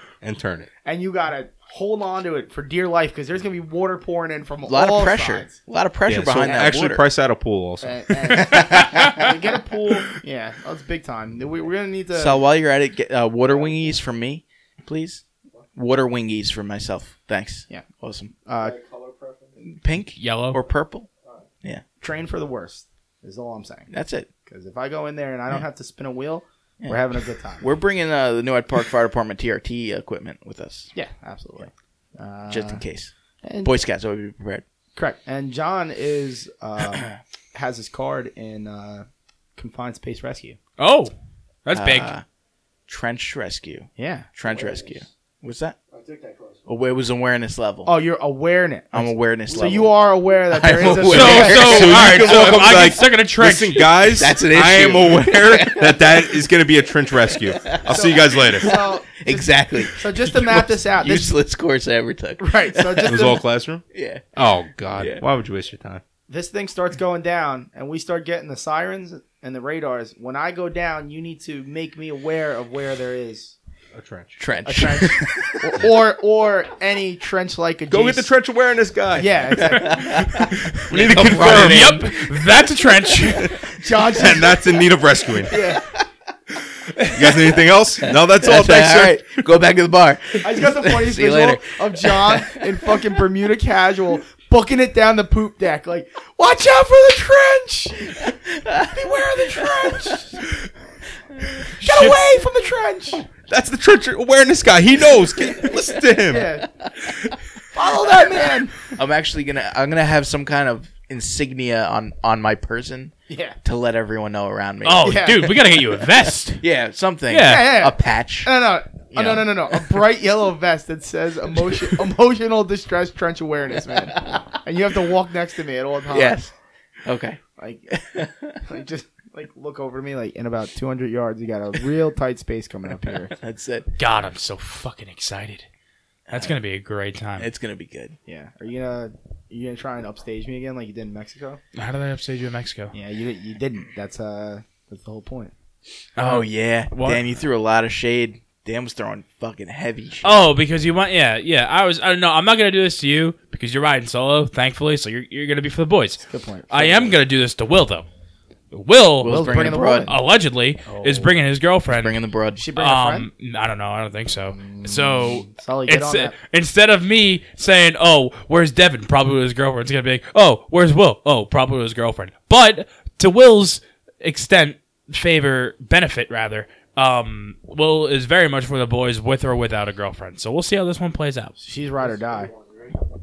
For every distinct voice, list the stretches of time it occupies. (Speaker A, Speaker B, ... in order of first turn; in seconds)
Speaker A: 0.2-0.7, 6.1-8.8, 51.2-58.8, 63.0-63.8, 64.3-66.0, 73.9-74.4, 77.9-79.8, 80.9-82.0, 83.4-85.6, 87.1-89.4, 103.4-106.5
Speaker B: 0.8-5.6, 7.8-12.4, 18.5-18.8, 22.0-23.9, 24.5-27.7, 30.9-32.8, 33.4-33.7, 35.0-39.1, 39.6-40.6, 44.0-44.3, 47.9-51.8, 57.9-61.3, 62.4-63.4, 66.3-73.6, 74.7-78.3, 79.2-80.2, 83.6-84.7, 85.5-85.8, 90.4-100.5, 101.6-103.2, 106.3-106.7, 107.7-108.9, 113.3-113.6, 115.0-115.6, 117.4-126.4, 127.6-133.3, 138.3-141.6, 142.9-145.5, 156.3-157.2, 159.2-160.2, 160.9-161.3, 162.6-163.3, 164.6-166.3, 181.6-182.5
Speaker C: 4.7-7.0, 8.4-9.1, 12.2-15.2, 15.8-18.3, 19.6-21.1, 23.9-24.3, 27.6-30.9, 32.5-33.1, 33.6-34.6, 41.7-42.2, 42.9-45.8, 46.7-48.0, 48.9-52.9, 53.9-56.4, 57.3-63.3, 63.9-64.2, 65.0-65.2, 74.4-75.7, 79.6-82.4, 85.5-86.0, 86.9-93.1, 98.3-99.9, 108.2-115.7, 116.6-118.5, 119.1-120.0, 121.6-122.0, 123.9-124.5, 126.1-126.5, 127.0-127.4, 128.0-128.6, 133.3-133.9, 136.3-136.5, 137.4-138.2, 146.2-150.5, 159.2-160.1, 161.9-162.6
Speaker D: 18.5-19.7, 21.2-21.5, 44.4-45.1, 45.9-46.7, 49.5-49.9, 182.0-183.0
Speaker E: 20.2-20.6, 40.8-41.1, 41.6-42.1, 51.1-53.9, 80.4-83.6, 101.9-102.1, 114.8-116.6, 117.3-117.8, 134.0-135.7, 136.3-137.5, 141.8-142.9, 146.2-147.2, 150.2-158.1, 158.7-162.2, 162.8-181.6